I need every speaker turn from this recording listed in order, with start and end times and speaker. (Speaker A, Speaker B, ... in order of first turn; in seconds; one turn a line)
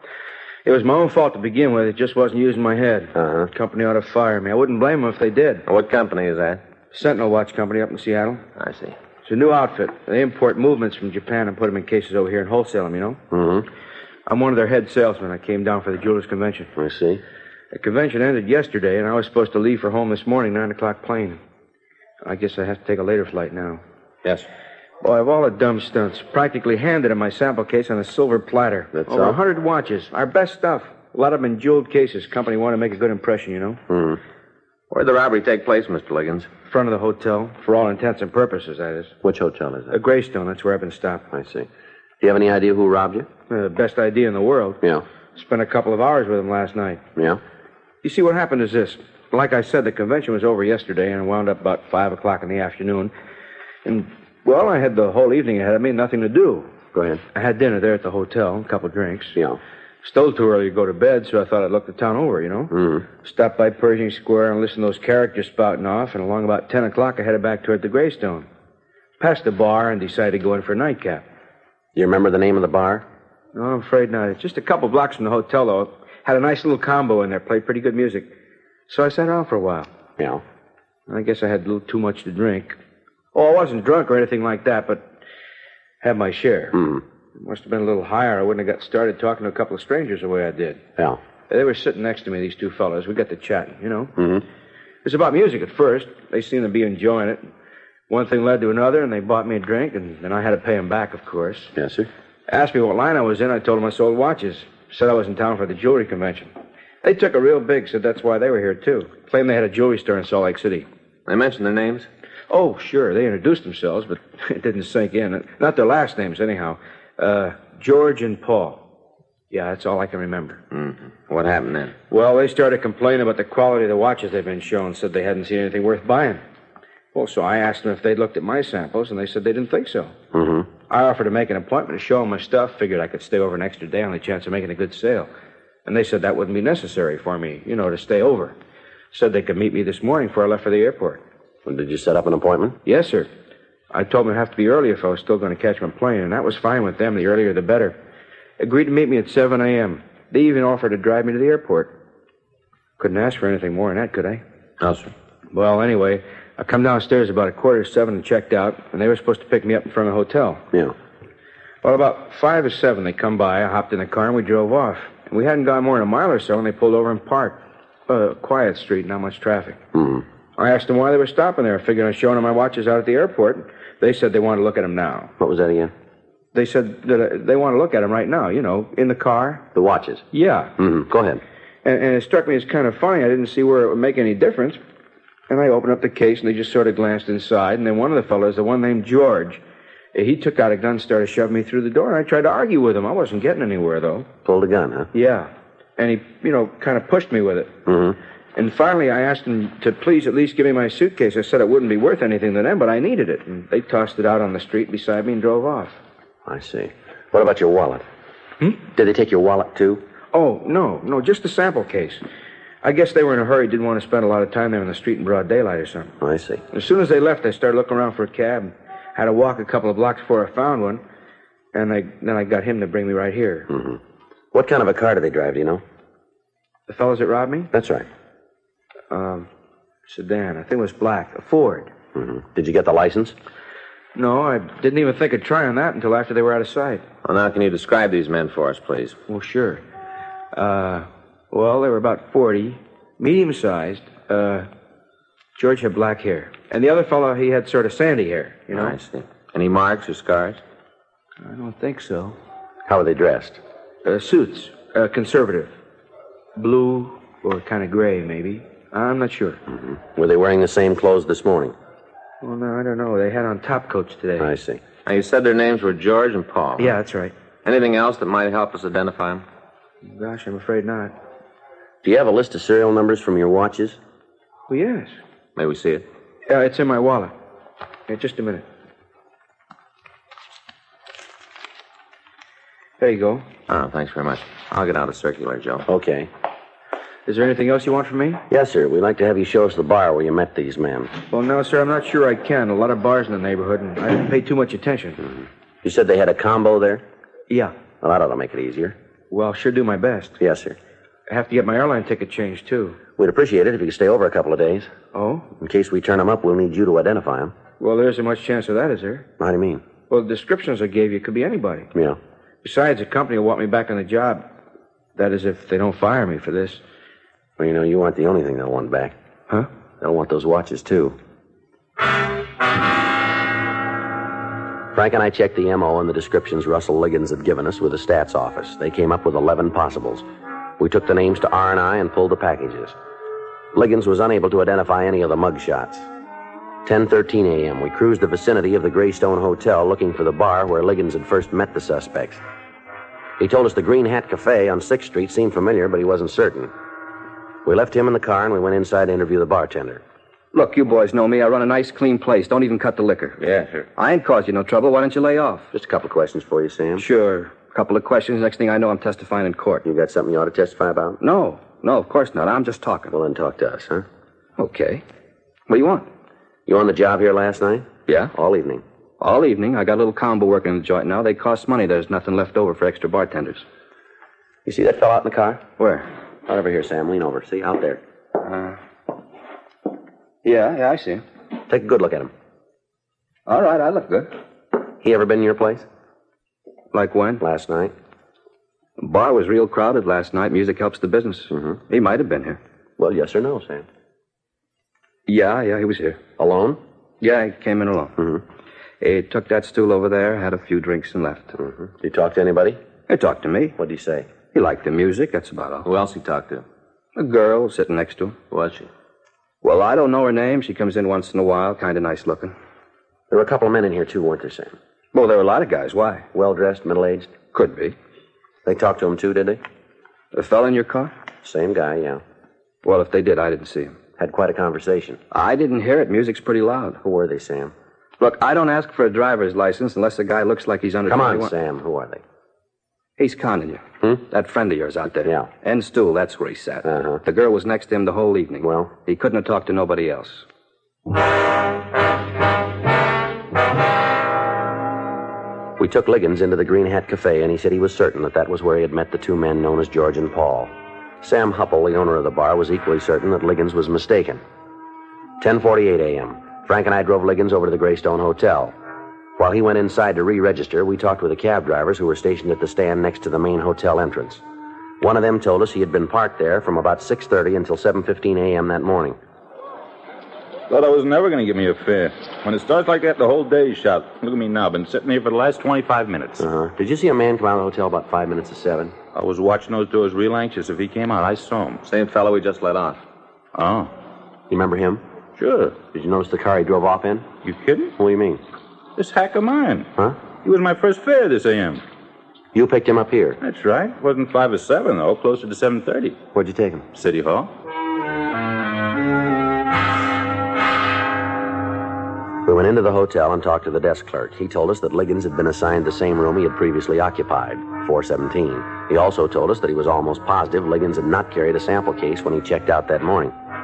Speaker A: 0.7-5.7
Speaker B: 3.1-3.5
Speaker C: 5.7-6.6
Speaker A: 6.9-8.4
Speaker C: 8.6-9.0
Speaker A: 9.2-13.2
Speaker B: 13.3-13.7
Speaker A: 14.3-16.7
Speaker B: 16.8-17.2
Speaker A: 17.7-21.4
Speaker A: 22.2-23.8
Speaker A: 25.0-33.8
Speaker B: 28.9-29.4
Speaker B: 33.9-34.2
Speaker C: 34.9-36.5
Speaker A: 36.7-39.1
Speaker B: 39.2-40.0
Speaker A: 39.9-41.3
Speaker B: 41.3-41.7
Speaker B: 42.2-43.3
Speaker A: 43.5-44.8
Speaker A: 45.4-47.0
Speaker A: 48.0-53.1
Speaker A: 53.9-56.7
Speaker B: 56.9-57.2
Speaker A: 57.3-59.4
Speaker A: 60.0-68.5
Speaker B: 62.7-63.0
Speaker A: 69.2-71.2
Speaker B: 71.9-73.1
Speaker A: 73.5-78.3
Speaker A: 78.9-79.9
Speaker B: 80.2-80.4
Speaker A: 81.1-82.8
Speaker A: 83.3-85.0
Speaker A: 86.0-86.8
Speaker B: 86.7-87.0
Speaker A: 87.4-90.8
Speaker A: 91.5-94.1
Speaker B: 94.2-94.4
Speaker A: 95.0-97.4
Speaker A: 98.1-101.7
Speaker B: 101.8-102.1
Speaker A: 102.5-106.5
Speaker A: 107.0-110.9
Speaker C: 111.3-112.1
Speaker A: 112.5-118.8
Speaker A: 119.5-120.6
Speaker C: 120.7-121.9
Speaker A: 122.1-126.4
Speaker A: 127.1-130.1
Speaker B: 130.3-130.7
Speaker A: 130.9-135.3
Speaker A: 135.9-138.6
Speaker A: 139.1-141.2
Speaker B: 141.7-142.8
Speaker A: 142.8-143.3
Speaker A: 143.9-148.0
Speaker A: 148.6-151.9
Speaker A: 153.0-154.4
Speaker C: 154.8-155.1
Speaker A: 155.5-160.6
Speaker A: 161.8-169.8
Speaker B: 169.9-170.2
Speaker A: 170.6-175.3
Speaker B: 175.4-175.9
Speaker A: 176.6-179.7
Speaker B: 179.8-180.2
Speaker A: 180.3-180.7
Speaker B: 180.8-181.4
Speaker A: 181.8-184.8
Speaker A: 185.5-189.6
Speaker A: 190.1-194.3
Speaker B: 194.4-195.1
Speaker A: 195.1-197.7
Speaker B: 197.9-198.2
Speaker A: 198.6-206.0
Speaker B: 206.4-208.1
Speaker B: 208.9-210.0
Speaker A: 210.3-212.2
Speaker A: 212.8-216.2
Speaker B: 216.2-216.6
Speaker A: 216.7-221.0
Speaker A: 221.7-223.7
Speaker B: 223.7-224.0
Speaker B: 224.5-225.8
Speaker A: 226.9-227.7
Speaker B: 227.7-228.1
Speaker A: 229.1-229.5
Speaker A: 230.1-231.9
Speaker B: 232.2-233.3
Speaker A: 234.2-237.0
Speaker C: 237.2-239.2
Speaker A: 239.3-239.8
Speaker A: 240.5-244.7
Speaker A: 245.6-249.0
Speaker C: 248.7-250.6
Speaker A: 251.4-252.4
Speaker B: 252.9-253.6
Speaker A: 254.1-255.7
Speaker A: 256.6-259.6
Speaker B: 259.7-261.8
Speaker A: 262.4-264.5
Speaker B: 264.4-264.8
Speaker C: 265.0-267.0
Speaker A: 266.8-267.3
Speaker C: 267.6-269.4
Speaker A: 270.0-271.1
Speaker B: 272.0-274.0
Speaker A: 274.7-275.1
Speaker C: 275.6-276.0
Speaker A: 276.5-277.3
Speaker A: 278.1-278.6
Speaker A: 283.0-283.4
Speaker C: 283.7-285.9
Speaker B: 285.9-286.3
Speaker A: 287.3-288.4
Speaker B: 288.5-291.1
Speaker A: 291.3-295.2
Speaker B: 295.8-297.0
Speaker B: 298.0-299.0
Speaker A: 299.3-300.4
Speaker B: 300.4-300.8
Speaker A: 301.3-303.0
Speaker B: 303.2-304.9
Speaker A: 305.1-305.5
Speaker B: 305.6-307.5
Speaker A: 307.8-309.2
Speaker B: 309.4-309.8
Speaker A: 310.1-311.9
Speaker B: 311.9-312.2
Speaker A: 312.6-314.4
Speaker A: 315.1-316.8
Speaker B: 317.6-319.1
Speaker B: 320.0-321.2
Speaker B: 324.9-330.2
Speaker B: 330.8-333.0
Speaker B: 333.7-336.1
Speaker B: 336.9-342.4
Speaker B: 343.4-346.7
Speaker B: 347.6-350.0
Speaker D: 350.5-353.4
Speaker C: 353.4-353.9
Speaker D: 354.0-355.7
Speaker B: 355.7-357.1
Speaker D: 357.0-359.8
Speaker B: 359.8-361.2
Speaker D: 361.2-363.1
Speaker B: 363.1-364.1
Speaker D: 364.6-365.0
Speaker D: 365.7-366.1
Speaker B: 366.6-368.8
Speaker D: 368.1-368.3
Speaker D: 369.2-373.6
Speaker B: 374.6-375.6
Speaker D: 375.8-376.1
Speaker B: 376.5-378.0
Speaker D: 378.4-378.8
Speaker D: 380.4-381.2
Speaker B: 381.7-382.3
Speaker D: 383.5-384.3
Speaker B: 385.0-385.9
Speaker D: 386.9-387.4
Speaker B: 387.4-387.9
Speaker D: 389.0-392.6
Speaker B: 391.5-391.8
Speaker B: 393.0-393.9
Speaker D: 395.2-396.2
Speaker B: 396.4-396.8
Speaker D: 397.2-398.1
Speaker B: 398.2-398.4
Speaker D: 399.0-401.5
Speaker B: 401.6-402.8
Speaker D: 403.1-403.8
Speaker B: 403.8-404.3
Speaker D: 404.5-405.9
Speaker C: 405.9-406.6
Speaker D: 407.1-408.4
Speaker C: 408.5-408.9
Speaker D: 409.6-412.5
Speaker B: 413.3-414.8
Speaker D: 415.1-416.2
Speaker B: 416.3-417.3
Speaker D: 417.5-417.9
Speaker B: 418.6-419.6
Speaker D: 420.3-421.1
Speaker B: 421.4-422.2
Speaker D: 422.8-423.9
Speaker B: 424.2-425.2
Speaker D: 425.3-427.0
Speaker B: 427.0-427.7
Speaker D: 428.2-431.5
Speaker B: 431.1-432.2
Speaker D: 433.2-440.4
Speaker B: 436.8-437.2
Speaker B: 438.6-438.9
Speaker B: 445.8-454.4
Speaker B: 455.4-458.8
Speaker B: 459.4-464.4
Speaker B: 465.0-469.2
Speaker E: 470.7-476.5
Speaker B: 476.4-478.9
Speaker E: 479.1-481.8
Speaker C: 481.9-483.0
Speaker E: 483.5-483.9
Speaker B: 484.5-485.0
Speaker E: 485.4-485.8
Speaker B: 485.8-487.3
Speaker E: 487.4-487.9
Speaker B: 488.0-488.4
Speaker E: 489.0-489.9
Speaker E: 490.4-491.8
Speaker B: 492.5-493.4
Speaker E: 493.4-496.2
Speaker B: 496.3-496.9
Speaker E: 496.9-497.5
Speaker B: 502.4-513.3